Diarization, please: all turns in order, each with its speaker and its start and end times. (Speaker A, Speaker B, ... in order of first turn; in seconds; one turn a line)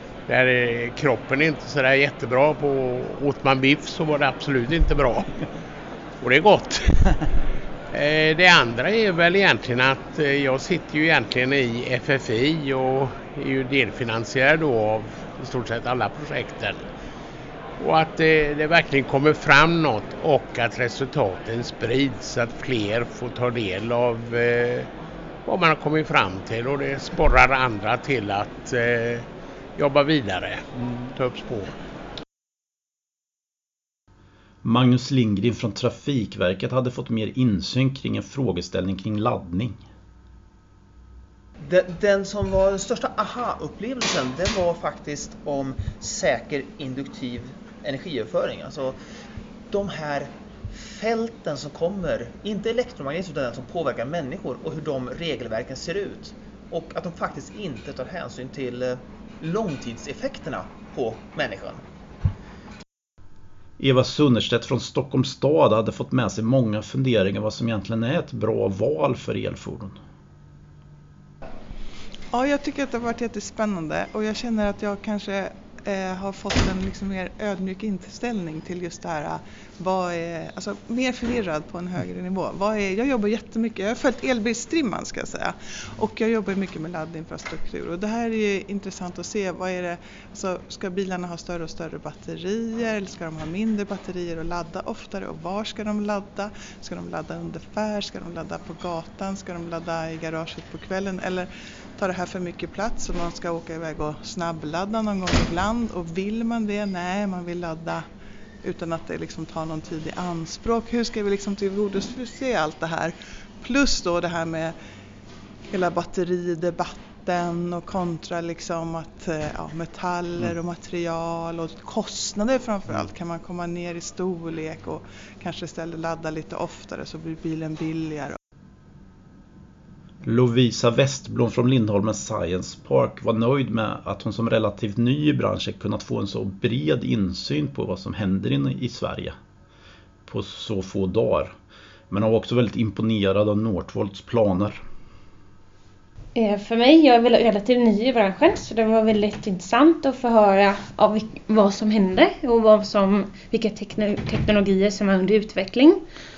Speaker A: 0.3-5.3
Speaker A: 6.2-7.2
Speaker A: 7.9-16.8
Speaker A: 17.8-24.9
Speaker A: 25.5-31.7
Speaker B: 34.6-39.9
Speaker C: 41.6-49.0
Speaker C: 49.7-61.8
Speaker B: 63.8-70.0
Speaker D: 72.3-108.0
Speaker D: 108.6-114.8
Speaker D: 115.7-128.4
Speaker B: 130.2-139.3
Speaker B: 140.3-141.5
Speaker B: 142.1-144.8
Speaker E: 146.4-156.0